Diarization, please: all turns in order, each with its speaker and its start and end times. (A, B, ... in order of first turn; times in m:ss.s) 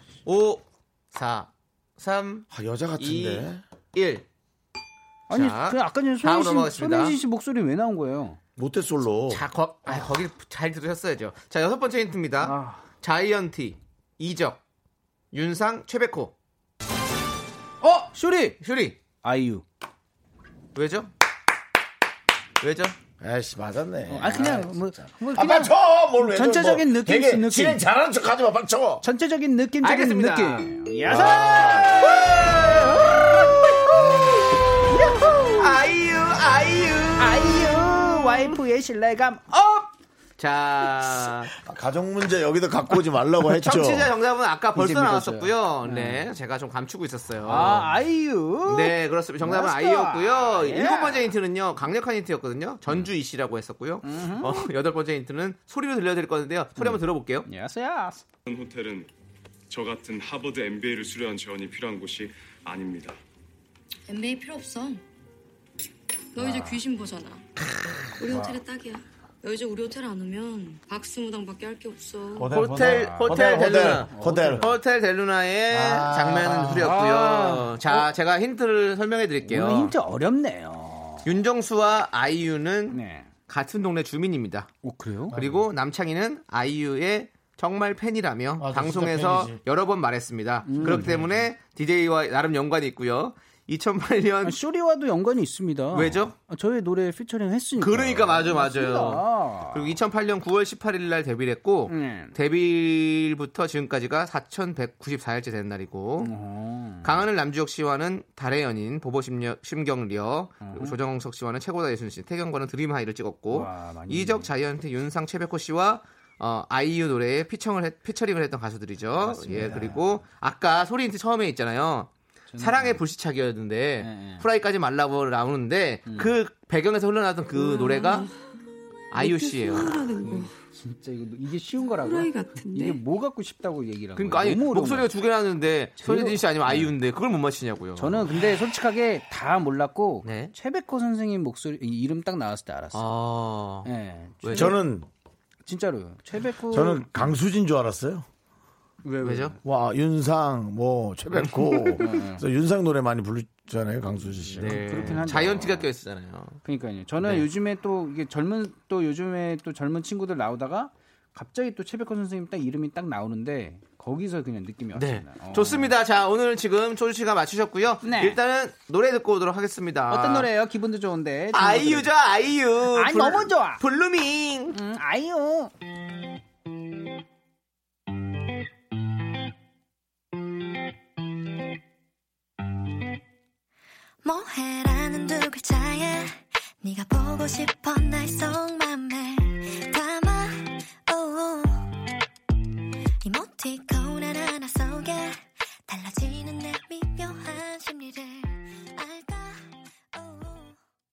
0:00.2-0:02.5 A
0:02.5-0:03.6 B
0:03.0-0:04.2 A
0:05.3-0:08.4 C
0:05.3-0:07.2 A
0:08.6-0:09.4 B
0:09.3-0:14.6 A
0:12.4-0:12.8 C
0:15.3-0:16.3 A
0:17.8-0:18.6 C
0:18.6-0:19.0 A
0:19.2-0:19.6 C
0:20.8-0:21.1 A
0:22.6-0:23.0 A
0:23.2-0:29.0 B
0:24.1-0:27.8 C
0:29.0-0:33.3 C
0:29.8-0:34.4 A
0:31.1-0:32.1 B
0:34.9-0:35.8 C
0:35.5-0:38.2 A
0:37.2-0:39.9 C
0:40.4-0:41.5 A
0:41.5-0:44.1 B
0:43.6-0:47.9 A
0:44.7-0:46.3 C
0:47.4-0:51.3 C
0:48.6-0:57.5 A
0:54.0-0:54.7 C
0:56.8-0:58.2 C
0:58.5-0:59.1 D
0:59.7-1:03.2 D
1:04.1-1:05.0 E
1:06.4-1:07.4 E
1:06.4-1:06.8 C
1:07.8-1:08.5 B
1:08.2-1:12.5 E
1:12.4-1:14.7 B
1:12.5-1:19.9 A
1:12.7-1:14.7 C
1:15.7-1:16.9 B
1:16.7-1:18.1 C
1:19.4-1:21.3 C
1:21.2-1:24.7 A
1:22.9-1:23.3 C
1:24.8-1:25.4 C
1:25.3-1:34.6 A
1:25.3-1:25.6 B
1:28.6-1:29.6 B
1:30.6-1:31.3 C
1:34.4-1:40.0 C
1:35.9-1:36.3 A
1:37.8-1:46.3 A
1:41.9-1:42.4 C
1:46.2-1:47.2 C
1:47.0-2:08.3 A
1:50.6-1:51.0 C
1:53.5-1:54.5 C
1:59.2-2:00.1 C
2:02.5-2:03.0 C
2:04.0-2:04.4 C
2:06.1-2:06.4 C
2:07.6-2:08.3 E
2:09.1-2:10.1 A
2:09.2-2:10.5 E
2:10.2-2:15.1 C
2:12.0-2:13.0 E
2:14.2-2:18.3 A
2:16.0-2:16.9 C
2:18.0-2:23.1 C
2:20.2-2:20.5 A
2:22.9-2:23.9 A
2:23.8-2:24.8 C
2:24.4-2:24.8 A
2:24.5-2:25.1 B
2:25.7-2:27.2 C
2:26.7-2:28.3 B
2:29.0-2:29.6 A
2:29.2-2:29.6 C
2:29.6-2:35.2 B
2:31.4-2:32.0 A
2:32.0-2:32.4 C
2:34.5-2:35.9 C
2:34.6-2:36.6 A
2:36.6-2:46.0 C
2:37.2-2:37.5 A
2:45.0-2:50.5 A
2:48.0-2:48.4 C
2:50.1-2:52.1 C
2:51.5-2:54.8 A
2:52.9-2:53.8 C
2:54.7-2:55.7 C
3:04.2-3:11.8 F
3:13.2-3:20.8 F